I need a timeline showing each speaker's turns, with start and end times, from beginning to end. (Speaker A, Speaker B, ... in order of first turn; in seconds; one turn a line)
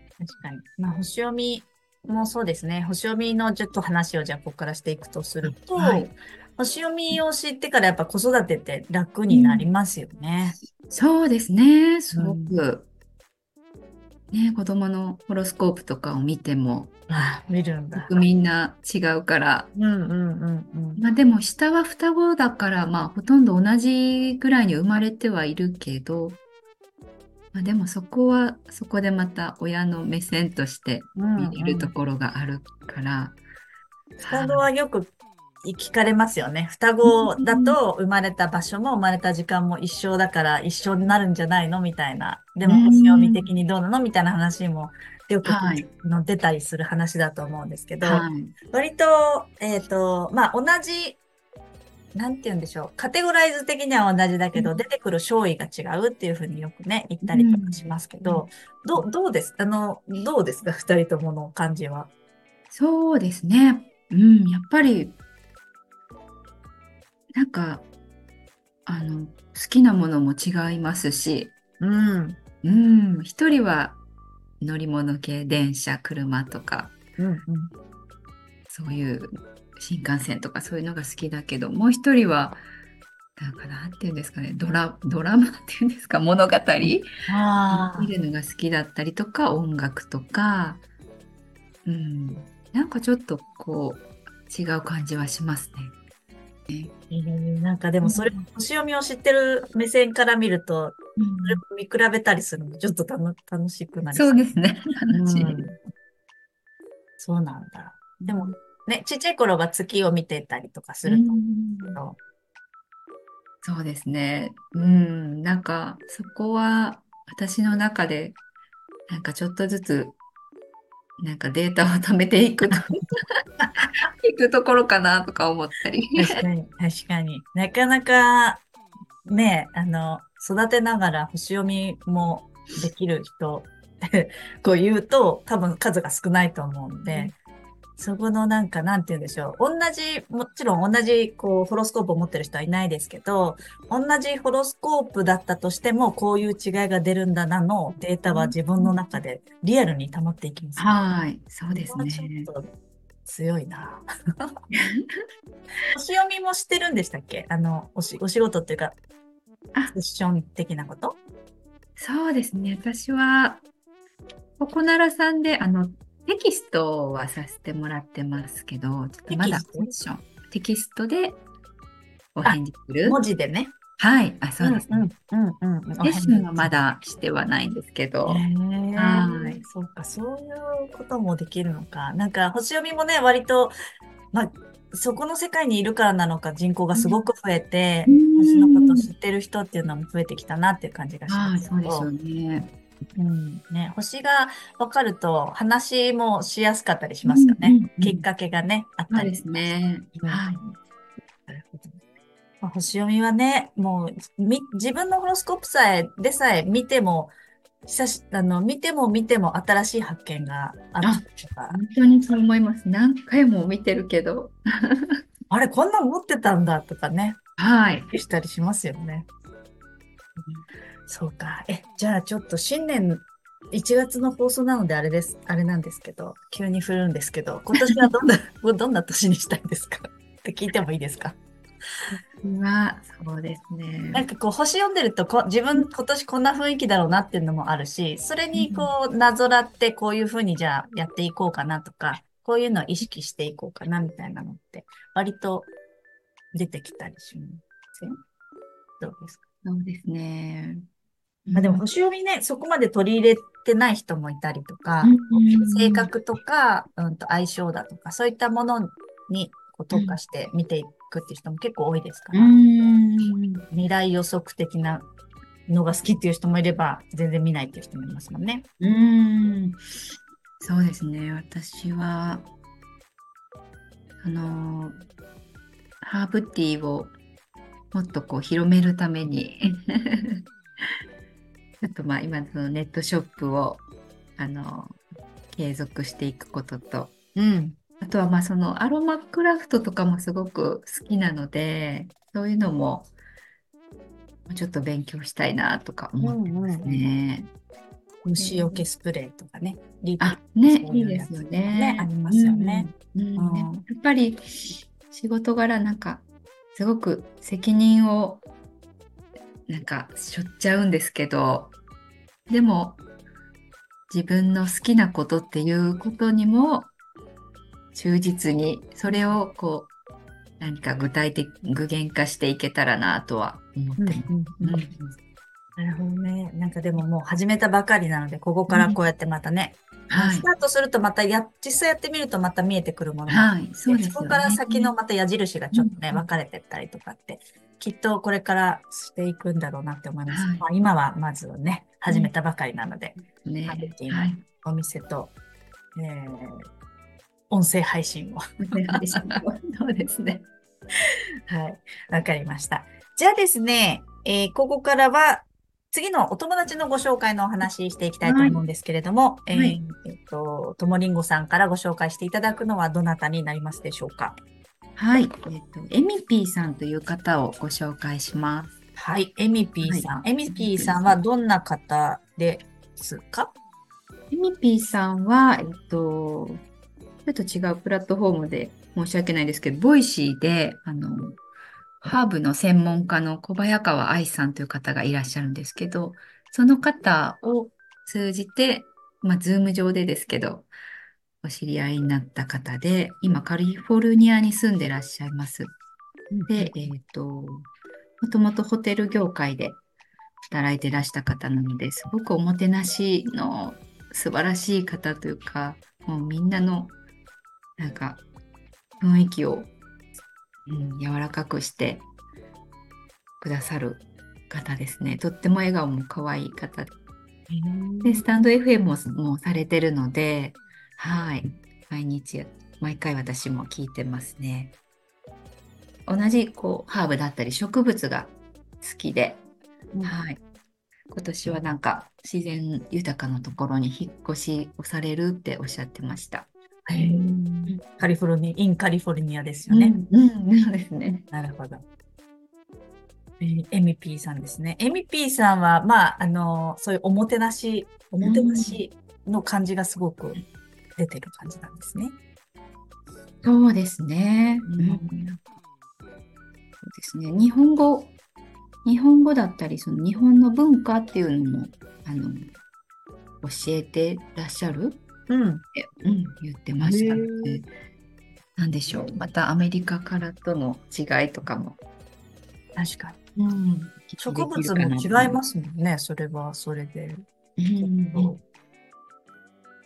Speaker A: 0.2-10.6
Speaker B: 5.4-6.1
Speaker B: 9.3-9.7
Speaker B: 10.7-12.9
Speaker A: 12.1-12.5
Speaker B: 14.3-16.9
Speaker A: 17.1-18.2
Speaker B: 17.9-19.7
Speaker A: 19.7-21.0
Speaker B: 21.0-26.4
Speaker B: 27.5-33.4
Speaker A: 31.1-31.9
Speaker B: 34.2-34.7
Speaker A: 34.3-51.2
Speaker B: 37.0-37.8
Speaker B: 42.6-43.5
Speaker B: 45.4-45.9
Speaker B: 48.0-48.5
Speaker A: 52.1-62.1
Speaker B: 54.5-54.8
Speaker B: 57.2-59.0
Speaker B: 62.7-65.2
Speaker B: 67.3-67.9
Speaker B: 68.9-71.5
Speaker A: 71.8-72.4
Speaker B: 72.6-74.0
Speaker B: 74.6-77.0
Speaker A: 77.2-77.7
Speaker B: 78.7-82.6
Speaker B: 83.4-87.1
Speaker A: 87.3-88.1
Speaker B: 87.7-90.8
Speaker B: 91.8-95.9
Speaker A: 97.1-104.5
Speaker B: 98.0-98.5
Speaker B: 101.2-101.6
Speaker B: 104.1-105.7
Speaker A: 105.1-105.8
Speaker A: 107.2-111.4
Speaker B: 108.2-108.5
Speaker B: 111.0-112.0
Speaker B: 113.6-118.4
Speaker B: 119.1-120.2
Speaker B: 121.2-123.2
Speaker B: 124.2-126.4
Speaker A: 126.2-128.6
Speaker A: 129.2-137.3
Speaker B: 137.1-137.3
Speaker A: 138.0-151.0
Speaker B: 148.3-148.9
Speaker B: 150.8-152.5
Speaker A: 151.9-152.7
Speaker A: 153.2-154.5
Speaker B: 154.7-155.2
Speaker A: 155.9-159.0
Speaker A: 159.9-161.2
Speaker B: 162.0-163.7
Speaker B: 164.6-171.4
Speaker A: 169.3-169.9
Speaker B: 172.3-173.2
Speaker A: 172.4-173.8
Speaker B: 174.0-175.1
Speaker A: 174.6-176.8
Speaker B: 176.0-179.6
Speaker A: 178.2-183.7
Speaker A: 184.3-192.1
Speaker B: 188.1-189.1
Speaker B: 191.3-192.7
Speaker A: 193.2-200.8
Speaker B: 197.2-198.2
Speaker B: 199.1-200.6
Speaker A: 201.5-202.0
Speaker A: 202.6-207.3
Speaker A: 207.9-211.8
Speaker B: 211.0-215.2
Speaker A: 215.5-217.4
Speaker B: 217.6-218.1
Speaker A: 218.1-219.3
Speaker A: 221.1-231.4
Speaker B: 232.4-234.2
Speaker A: 234.1-245.7
Speaker B: 238.5-238.9
Speaker A: 246.5-247.6
Speaker A: 249.0-249.4
Speaker B: 249.6-250.8
Speaker B: 251.4-251.8
Speaker A: 251.5-262.6
Speaker B: 255.0-256.1
Speaker B: 262.3-263.6
Speaker A: 263.7-265.1
Speaker A: 265.7-268.7
Speaker B: 268.8-269.8
Speaker B: 270.6-272.5
Speaker B: 274.2-275.0
Speaker B: 276.0-277.1
Speaker B: 277.9-280.4
Speaker B: 281.8-283.8
Speaker B: 284.4-287.1
Speaker A: 287.4-287.8
Speaker B: 288.0-293.1
Speaker B: 294.5-297.5
Speaker A: 296.2-297.0
Speaker A: 298.2-303.8
Speaker B: 298.4-298.8
Speaker B: 300.2-308.5
Speaker B: 309.7-311.8
Speaker B: 312.5-313.0
Speaker B: 314.1-316.9
Speaker B: 317.9-319.9
Speaker A: 319.1-319.4
Speaker B: 320.6-325.1
Speaker A: 324.0-324.8
Speaker A: 325.8-345.3
Speaker B: 328.7-329.0
Speaker B: 330.1-330.4
Speaker B: 333.3-334.9
Speaker B: 335.7-336.3
Speaker B: 340.3-340.6
Speaker B: 343.4-344.4
Speaker A: 345.9-346.6
Speaker A: 347.5-349.4
Speaker B: 348.6-350.5
Speaker A: 351.5-364.4
Speaker B: 358.2-358.6
Speaker B: 359.5-359.8
Speaker B: 365.0-368.8
Speaker A: 369.0-373.5
Speaker B: 369.8-371.2
Speaker B: 374.3-376.6
Speaker B: 377.2-381.4
Speaker B: 382.0-390.7
Speaker B: 391.4-395.7
Speaker A: 396.3-396.7
Speaker B: 396.5-397.7
Speaker B: 398.2-399.8
Speaker B: 400.5-407.0
Speaker B: 407.8-408.2
Speaker B: 409.0-409.7
Speaker B: 410.7-412.1
Speaker B: 413.4-416.9
Speaker A: 417.5-418.3
Speaker B: 418.0-424.8
Speaker B: 426.1-429.4
Speaker B: 430.0-430.4
Speaker B: 431.1-437.8
Speaker A: 436.9-440.0
Speaker B: 439.7-441.2
Speaker A: 441.3-441.8
Speaker A: 443.4-450.4
Speaker B: 448.2-448.8
Speaker A: 451.0-452.1
Speaker B: 453.4-455.1
Speaker A: 454.7-455.4
Speaker B: 456.8-458.1
Speaker B: 458.8-462.5
Speaker B: 463.4-465.0
Speaker A: 465.3-465.6
Speaker B: 465.8-467.7
Speaker A: 466.8-467.6
Speaker B: 468.6-471.8
Speaker A: 472.8-473.2
Speaker B: 473.4-475.4
Speaker A: 474.2-477.2
Speaker B: 477.6-478.3
Speaker A: 477.8-478.4